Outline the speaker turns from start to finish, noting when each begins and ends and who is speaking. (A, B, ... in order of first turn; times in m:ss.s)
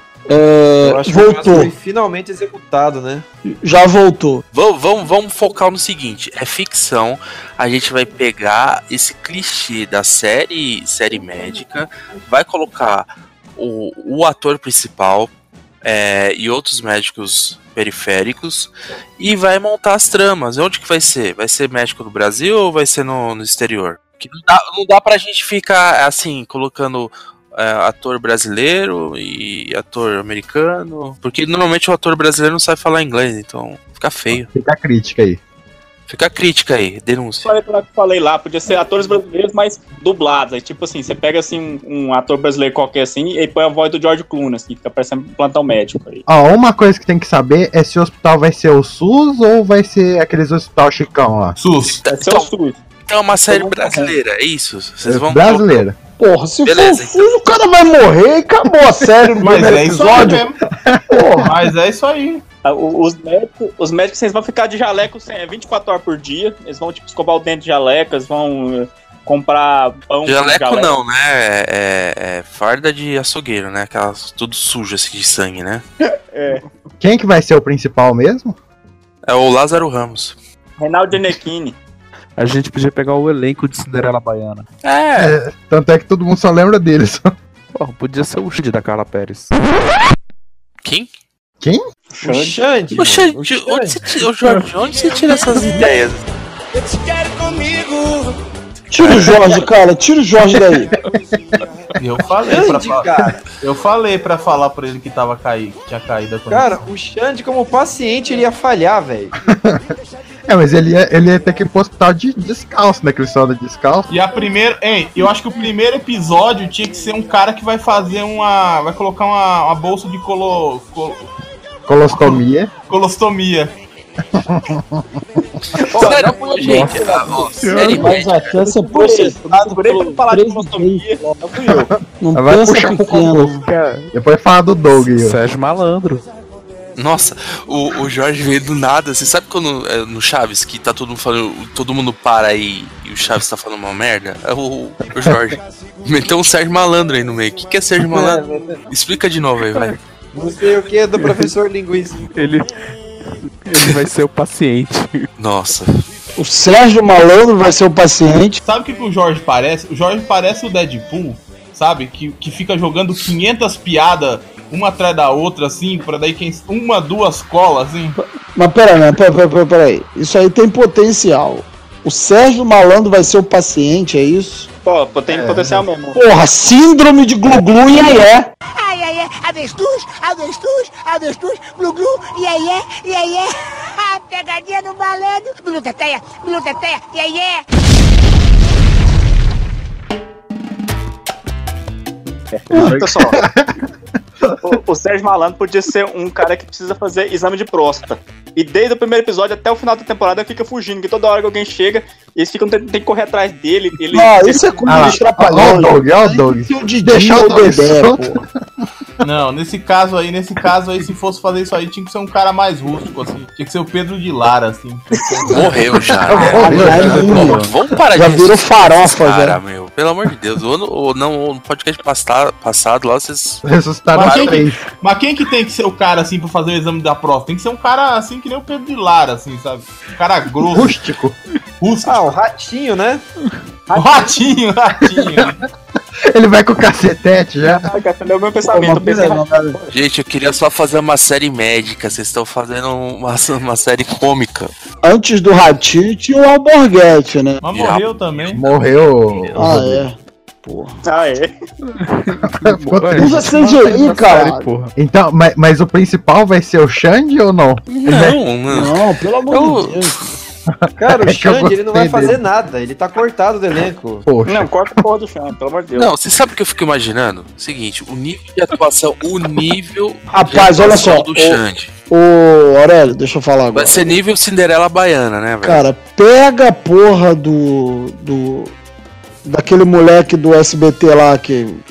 0:00.3-0:01.7 A
0:00.8-0:03.3 B
0:03.5-0:04.4 A
0:04.5-0:15.3 C
0:15.8-0:34.5 C
0:34.3-0:35.4 D
0:36.1-0:37.5 C
0:37.4-0:46.2 E
0:46.3-0:51.6 D
0:51.6-0:52.0 F
0:52.0-0:52.5 C
0:52.0-0:52.8 E
0:53.1-0:55.9 C
0:53.5-0:54.1 E
0:55.1-0:56.0 D
0:56.2-1:00.5 A
0:56.6-0:57.2 C
0:58.7-1:01.6 D
0:59.4-1:00.6 F
1:01.1-1:01.5 A
1:01.4-1:02.4 F
1:02.6-1:10.9 E
1:10.2-1:15.8 C
1:16.3-1:16.6 E
1:17.0-1:18.6 D
1:19.3-1:20.4 C
1:20.8-1:21.8 E
1:22.4-1:24.7 G
1:24.8-1:25.4 C
1:25.2-1:27.3 D
1:27.8-1:29.5 G
1:32.2-1:32.6 E
1:32.2-1:34.1 B
1:32.9-1:36.2 C
1:38.9-1:40.9 A
1:39.0-1:39.3 C
1:42.0-1:46.8 F
1:42.5-1:43.4 B
1:46.5-1:49.3 B
1:49.5-1:49.8 D
1:50.5-1:54.1 D
1:54.1-2:01.3 F
2:01.9-2:02.7 D
2:02.1-2:03.7 F
2:04.3-2:05.0 D
2:05.8-2:08.5 C
2:05.8-2:11.9 E
2:07.6-2:11.1 A
2:11.7-2:13.6 D
2:12.2-2:13.6 A
2:14.1-2:15.4 D
2:15.0-2:16.3 G
2:17.0-2:30.0 C
2:28.1-2:28.8 B
2:30.3-2:32.3 B
2:32.3-2:32.7 G
2:33.6-2:35.3 G
2:35.4-2:36.0 C
2:36.4-2:38.6 A
2:38.6-2:48.2 F
2:48.6-2:54.7 A
2:54.8-2:56.2 E
2:55.3-2:55.8 D
2:56.2-2:58.5 A
2:58.8-3:07.6 H
3:12.5-3:13.4 E
3:12.8-3:13.7 D
3:14.6-3:25.2 E
3:24.1-3:28.4 A
3:24.9-3:28.5 D
3:29.2-3:35.7 F
3:35.5-3:43.6 C
3:36.2-3:37.6 D
3:36.4-3:39.6 A
3:37.1-3:37.7 G
3:43.6-3:44.8 D
3:44.1-3:50.9 F
3:44.2-3:44.5 C
3:50.6-3:51.4 D
3:51.8-3:52.4 F
3:52.0-3:53.2 B
3:53.9-3:54.4 E
3:53.9-3:55.6 F
3:55.0-3:55.4 E
3:56.3-3:57.9 D
3:57.6-3:59.9 E
3:58.7-3:59.8 A
3:59.9-4:04.7 C
4:05.0-4:07.6 A
4:07.6-4:08.6 F
4:07.7-4:09.6 C
4:08.5-4:10.1 D
4:09.6-4:10.9 A
4:11.1-4:11.5 E
4:12.0-4:14.9 G
4:12.5-4:13.8 D
4:13.2-4:14.7 A
4:15.0-4:18.4 D
4:17.9-4:19.0 C
4:18.7-4:20.3 A
4:19.5-4:20.3 C
4:20.8-4:22.4 D
4:21.0-4:24.3 B
4:24.3-4:24.7 D
4:24.4-4:26.1 E
4:26.0-4:31.9 C
4:30.3-4:31.6 A
4:32.1-4:34.0 A
4:33.7-4:35.9 C
4:35.6-4:38.7 A
4:39.5-4:41.8 A